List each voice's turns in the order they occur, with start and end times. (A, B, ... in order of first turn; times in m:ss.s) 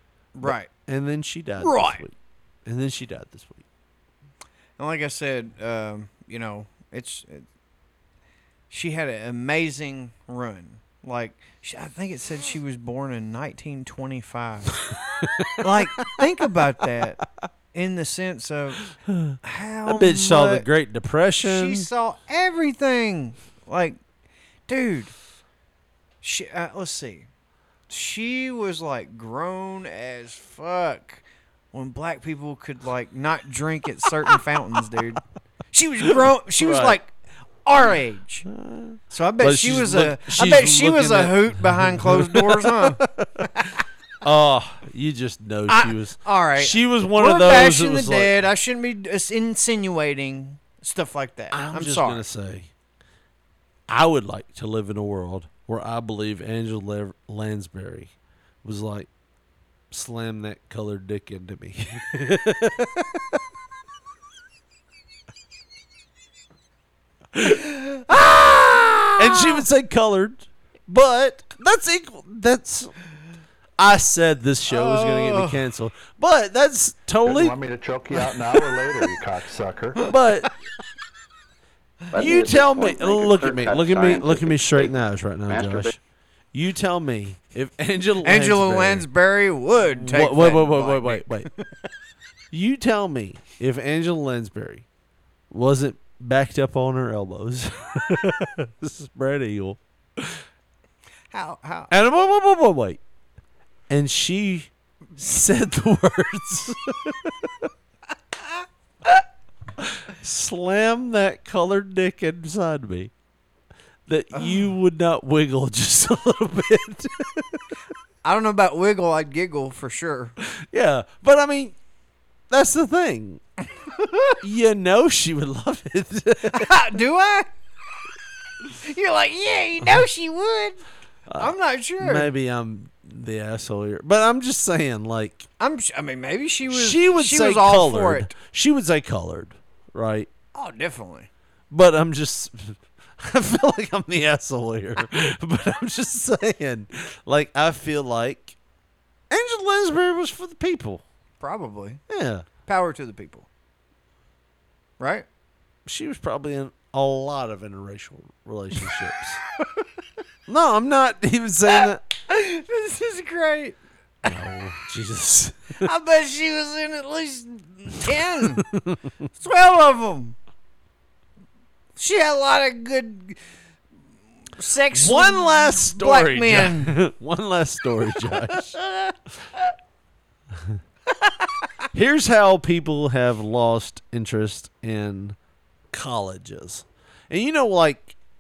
0:00.3-0:00.7 A
0:00.4-0:02.1 B
0:01.6-0:02.0 A
0:02.6-0:03.6 B
0:04.8-0:07.4 A
0:08.7-0:14.7 A
0:15.2-0:15.8 B
0:15.6-0:17.2 A
0:17.7-0:18.8 A
0:19.1-0:19.4 B
0:19.4-0:20.7 A
0:19.9-0:21.9 B
0:21.4-0:24.0 A
0:24.7-0:25.1 A
0:26.2-0:27.3 A
0:27.9-0:35.2 A
0:35.7-0:38.4 A
0:36.0-0:37.0 B
0:38.4-0:43.6 B
0:39.1-0:43.0 A
0:44.2-0:48.5 B
0:45.7-0:52.2 A
0:51.5-0:52.7 B
0:53.9-0:58.1 B
0:58.6-0:59.1 B
0:59.9-1:03.4 B
1:07.8-1:09.6 A
1:09.2-1:12.9 B
1:13.8-1:17.6 B
1:14.7-1:15.6 A
1:17.2-1:20.1 C
1:20.1-1:20.5 B
1:22.1-1:24.9 C
1:22.1-1:26.0 B
1:25.5-1:25.9 C
1:26.5-1:29.0 B
1:28.2-1:31.6 A
1:29.7-1:31.5 B
1:32.5-1:34.8 B
1:35.5-1:40.4 B
1:41.3-1:41.9 A
1:41.9-1:43.0 B
1:43.9-1:47.6 B
1:49.8-1:53.1 B
1:54.1-1:57.6 B
1:58.2-2:00.3 A
2:00.4-2:01.7 B
2:02.5-2:03.4 B
2:04.0-2:04.4 A
2:04.4-2:06.7 B
2:06.5-2:07.5 A
2:08.8-2:10.8 A
2:11.3-2:15.5 B
2:11.4-2:12.3 A
2:15.6-2:18.3 A
2:16.7-2:20.3 B
2:20.5-2:21.3 A
2:21.7-2:28.6 B
2:29.3-2:31.0 B
2:31.4-2:32.0 A
2:32.1-2:32.5 B
2:32.6-2:33.5 A
2:35.0-2:35.2 A
2:35.8-2:39.4 B
2:40.5-2:42.1 B
2:41.7-2:44.3 A
2:44.2-2:45.8 B
2:45.8-2:48.6 A
2:48.4-2:49.0 B
2:49.4-2:50.3 A
2:52.0-2:53.4 A
2:54.6-2:57.0 A
2:54.9-2:58.8 B
2:58.5-2:59.1 A
3:01.9-3:05.4 B
3:05.9-3:08.1 B